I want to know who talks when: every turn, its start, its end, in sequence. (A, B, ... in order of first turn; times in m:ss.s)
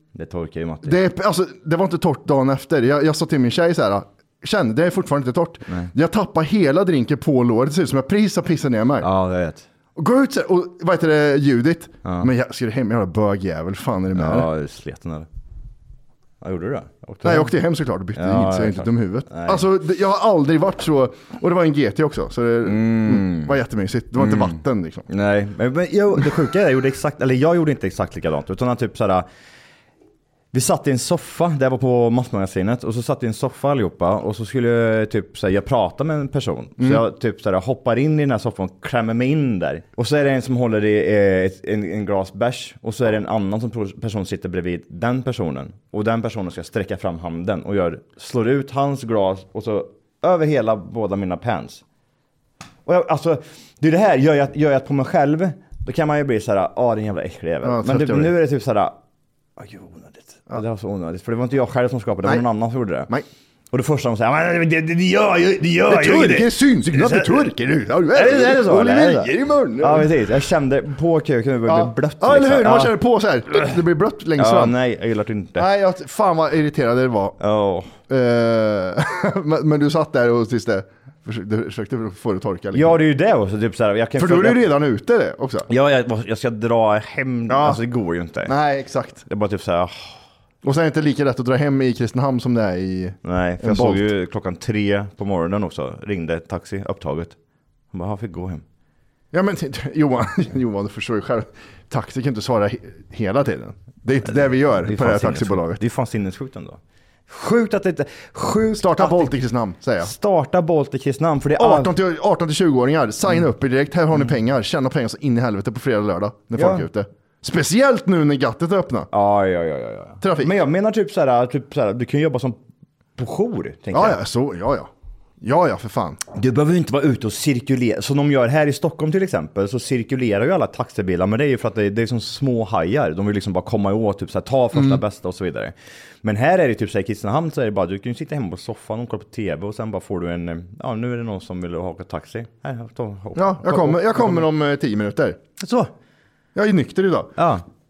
0:00.1-0:01.0 A
0:00.8-0:09.1 B
0:09.0-0:09.6 A
0:10.0-0:14.5 B
0:14.1-0:15.3 A
0:16.4-0:17.6 A
0:17.2-0:25.1 B
0:18.1-0:19.6 A
0:22.6-0:23.5 A
0:24.2-0:29.3 A
0:30.5-0:51.8 A
0:52.9-0:59.0 A
0:57.6-0:58.3 B
0:59.6-1:03.1 A
1:03.7-1:07.5 A
1:05.9-1:10.1 B
1:08.1-1:13.0 A
1:11.7-1:14.8 B
1:13.5-1:13.8 A
1:14.4-1:15.7 A
1:15.5-1:17.4 B
1:17.4-1:17.9 A
1:18.1-1:23.0 B
1:22.7-1:24.8 A
1:24.2-1:25.7 B
1:25.7-1:28.5 A
1:27.5-1:27.8 B
1:28.4-1:29.2 B
1:29.2-1:30.2 A
1:30.6-1:34.1 B
1:33.2-1:37.4 A
1:37.9-1:38.6 A
1:39.3-1:45.8 B
1:44.8-1:49.3 A
1:48.8-1:50.1 B
1:50.0-1:51.9 A
1:51.6-1:59.1 B
1:56.5-1:56.9 A
1:59.1-2:02.6 A
2:00.2-2:00.5 B
2:03.2-2:04.2 A
2:03.9-2:04.9 B
2:05.4-2:06.2 B
2:06.3-2:24.5 A
2:23.4-2:25.4 B
2:25.6-2:25.9 A
2:26.5-2:27.3 B
2:27.4-2:27.6 A